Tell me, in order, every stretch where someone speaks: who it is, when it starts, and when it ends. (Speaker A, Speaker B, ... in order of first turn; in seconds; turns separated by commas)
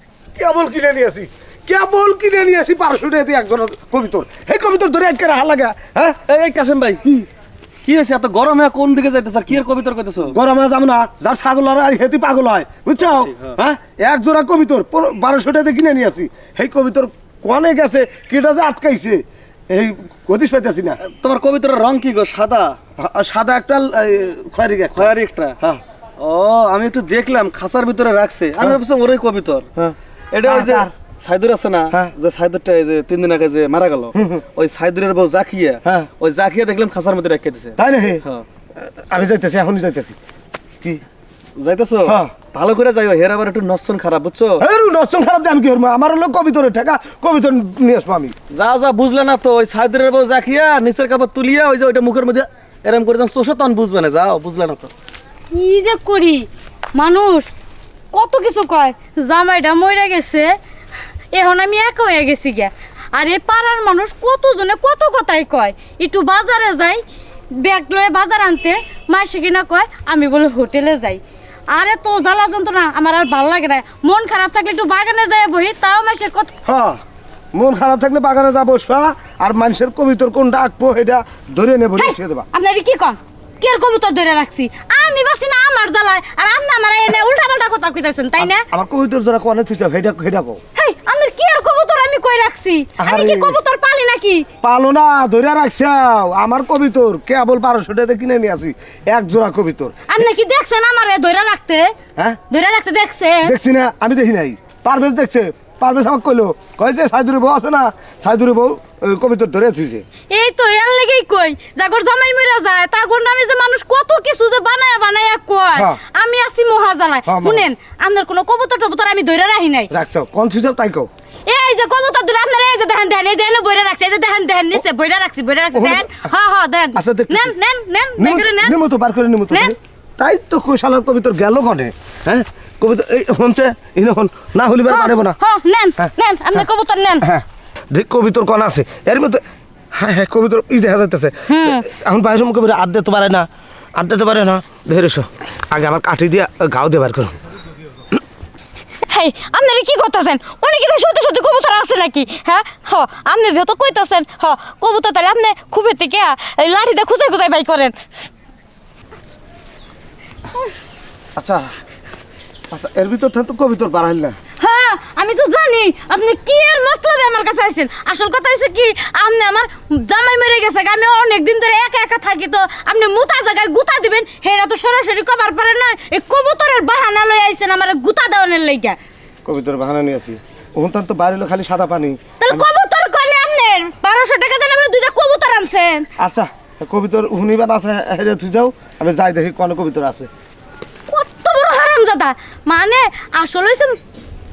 Speaker A: 0.4-6.2, Speaker B: 6.3-7.2, Speaker B: 7.8-10.4, Speaker A: 10.3-21.0, Speaker B: 13.0-13.6, Speaker B: 21.0-22.8, Speaker A: 23.0-25.8, Speaker B: 24.9-25.6, Speaker B: 26.2-29.7, Speaker A: 29.8-30.9, Speaker B: 30.3-38.5, Speaker A: 34.1-34.4, Speaker A: 37.8-38.2, Speaker A: 38.8-40.1, Speaker B: 41.6-44.6, Speaker A: 42.0-42.3, Speaker A: 44.6-48.3, Speaker B: 48.5-54.9, Speaker C: 55.5-57.5, Speaker C: 58.1-60.6, Speaker C: 61.3-76.5, Speaker A: 76.7-77.0, Speaker A: 77.5-82.5, Speaker C: 82.0-88.7, Speaker A: 88.4-90.6, Speaker C: 90.8-94.5, Speaker A: 93.0-93.6, Speaker A: 94.6-100.2, Speaker C: 100.1-101.9, Speaker C: 102.5-103.5, Speaker A: 103.4-110.0, Speaker C: 110.3-119.9, Speaker A: 115.8-116.0, Speaker A: 117.3-117.7, Speaker A: 119.9-121.1, Speaker C: 121.5-128.8, Speaker A: 125.7-126.3, Speaker A: 126.9-127.6, Speaker A: 128.2-135.4, Speaker C: 134.9-137.3, Speaker A: 136.0-136.6, Speaker A: 137.2-139.4, Speaker A: 139.9-147.4, Speaker C: 141.5-141.8, Speaker C: 149.1-157.9, Speaker A: 161.3-161.7, Speaker A: 162.7-164.3, Speaker C: 164.6-179.0, Speaker A: 179.4-182.7, Speaker C: 182.4-186.1, Speaker A: 186.2-190.3, Speaker C: 191.1-194.0